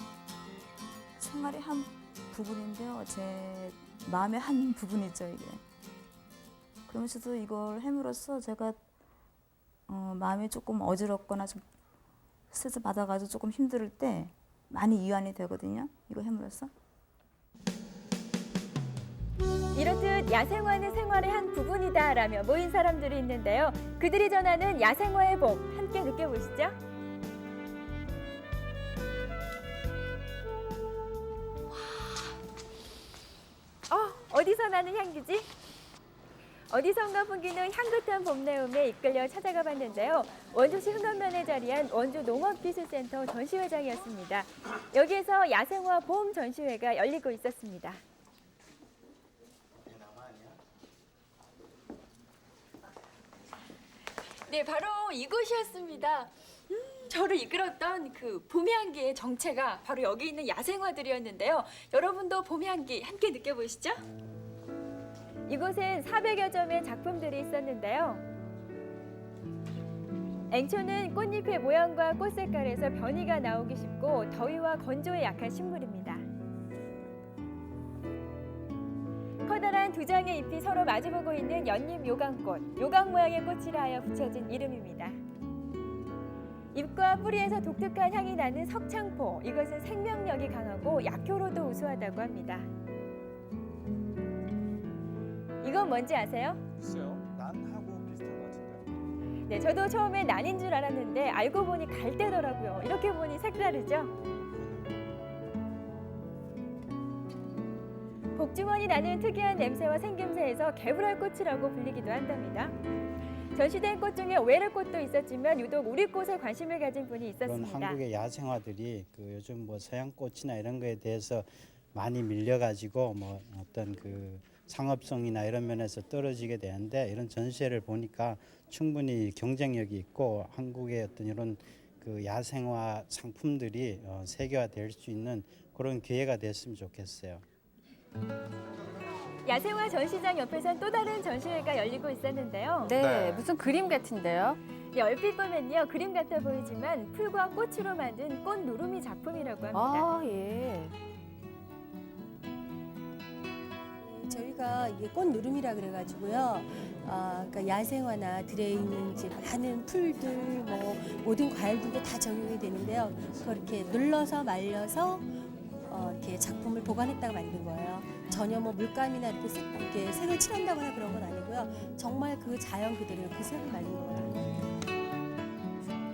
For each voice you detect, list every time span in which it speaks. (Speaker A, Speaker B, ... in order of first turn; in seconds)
Speaker A: 1.2-5.6, 6.9-8.8, 9.9-11.6, 12.5-16.7
Speaker B: 19.7-26.8, 33.9-35.5, 36.7-48.0, 54.5-64.0, 65.5-68.2, 70.5-76.2, 79.5-85.2, 86.7-92.7, 95.6-96.6, 99.5-104.1, 108.3-112.7, 113.5-118.0, 139.4-143.0, 144.9-150.1
Speaker C: 96.8-98.9, 104.5-105.0
Speaker D: 117.4-137.4
Speaker E: 142.8-144.6, 149.7-150.9
Speaker F: 154.0-165.3, 165.9-174.3